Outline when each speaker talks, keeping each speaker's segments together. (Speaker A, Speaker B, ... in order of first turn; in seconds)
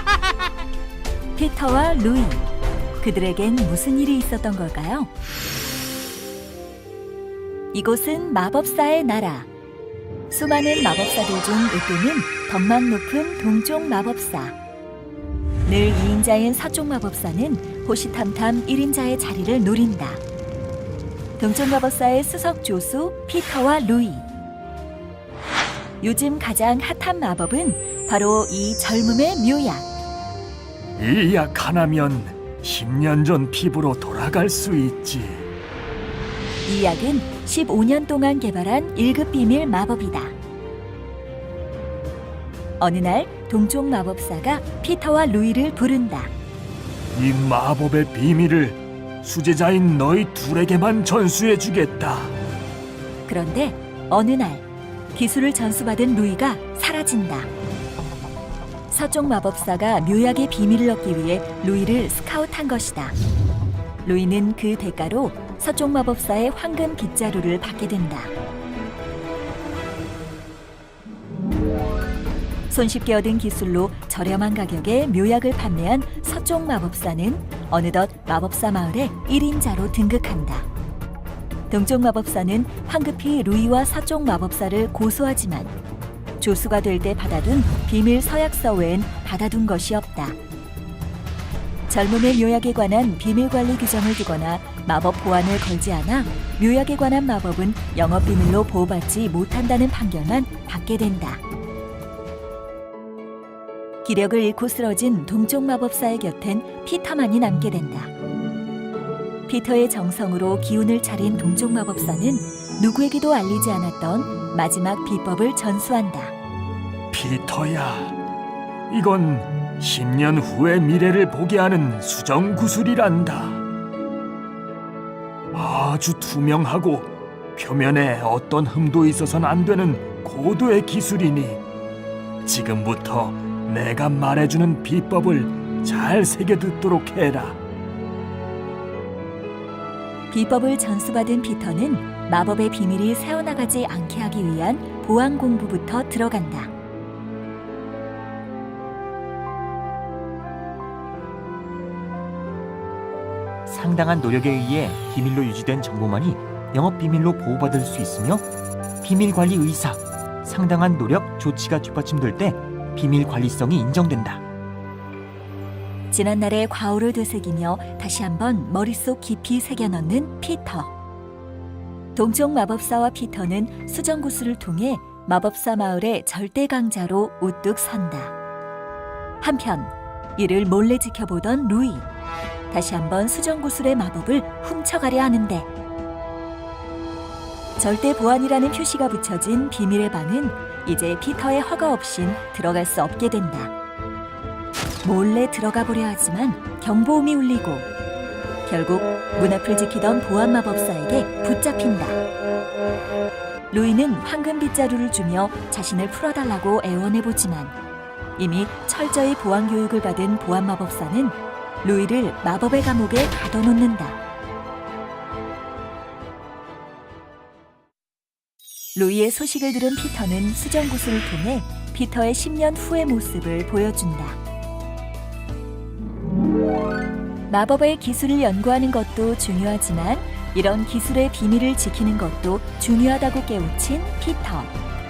Speaker A: 1.4-2.5, 3.0-5.1, 7.7-9.5, 10.3-14.6, 15.7-20.2, 21.4-24.3, 26.0-29.9, 36.7-40.3, 42.8-46.3, 53.3-57.5, 58.9-63.2, 64.0-68.3, 72.7-80.7, 81.7-85.7, 86.4-90.4, 91.9-101.4, 104.0-108.1, 109.5-116.3, 140.3-146.7, 166.1-170.9, 172.2-178.3, 179.4-182.1, 182.7-185.7, 187.8-193.7, 195.0-197.9, 198.7-202.2, 203.7-207.8, 208.4-214.2, 218.9-224.4, 227.5-234.7
Speaker B: 31.0-35.5, 47.1-52.4, 117.1-118.2, 118.9-123.6, 125.5-131.6, 132.4-137.6
Speaker C: 153.7-158.5, 159.0-164.4